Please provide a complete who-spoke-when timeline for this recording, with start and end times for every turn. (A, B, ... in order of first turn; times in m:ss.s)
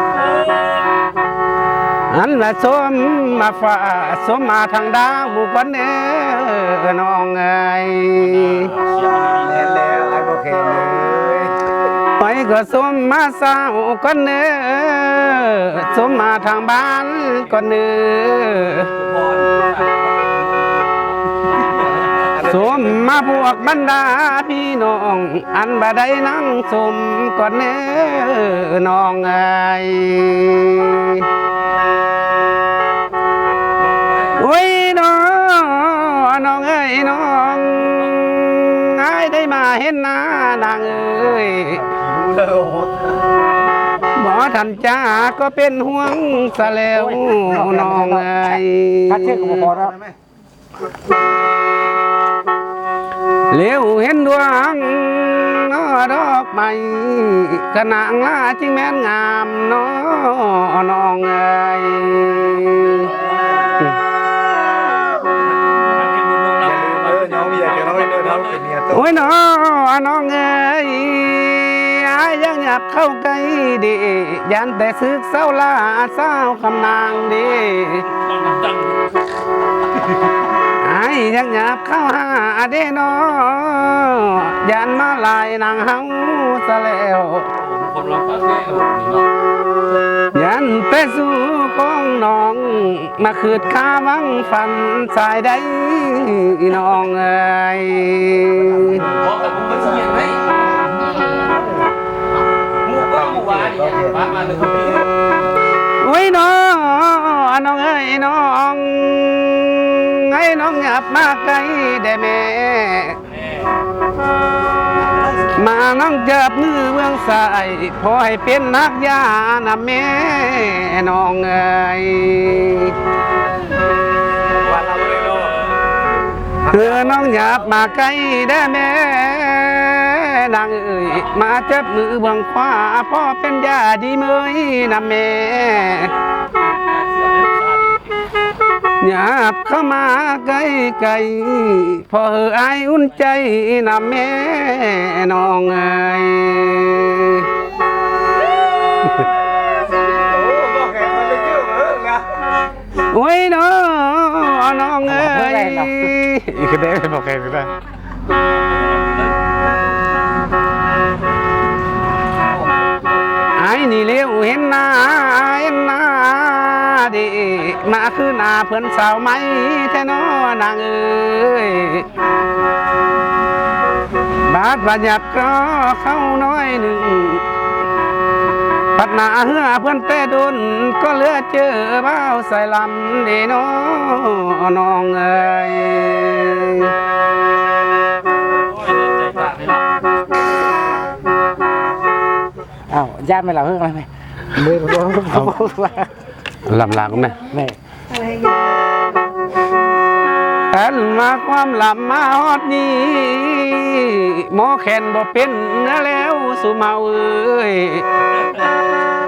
0:00.1-0:00.9 A
0:02.1-0:08.7 B
0:08.2-0:09.8 A
0:09.4-0:11.5 C
0:12.2-0:18.9 B
0:18.9-0:23.3 A
0:22.3-0:22.8 C
0:22.4-0:31.3 B
0:33.8-0:34.4 A
0:34.3-0:41.8 B
0:41.9-0:43.2 C
0:44.2-0:49.7 B
0:46.9-0:50.0 D
0:53.5-1:03.1 B
1:02.4-1:03.9 A
1:05.5-1:08.7 A
1:06.7-1:09.1 C
1:08.9-1:18.1 B
1:18.1-1:19.1 A
1:20.8-1:27.5 B
1:27.5-1:29.3 A
1:30.3-1:39.1 B
1:39.2-1:40.4 A
1:42.8-1:45.1 A
1:43.7-1:44.3 C
1:46.0-1:53.2 B
1:53.3-1:53.7 A
1:55.5-2:03.0 B
2:04.6-2:05.8 A
2:04.7-2:05.5 C
2:06.7-2:16.1 B
2:06.8-2:07.8 A
2:15.8-2:18.2 A
2:19.0-2:27.5 B
2:30.2-2:32.2 C
2:33.1-2:37.7 B
2:35.0-2:36.1 D
2:38.5-2:39.6 A
2:43.6-2:52.1 B
2:54.4-2:57.4 B
2:58.9-3:06.9 B
3:08.6-3:09.8 A
3:12.9-3:16.1 D
3:14.6-3:15.6 B
3:16.6-3:17.5 B
3:17.4-3:17.8 D
3:20.7-3:28.1 B
3:28.3-3:28.8 A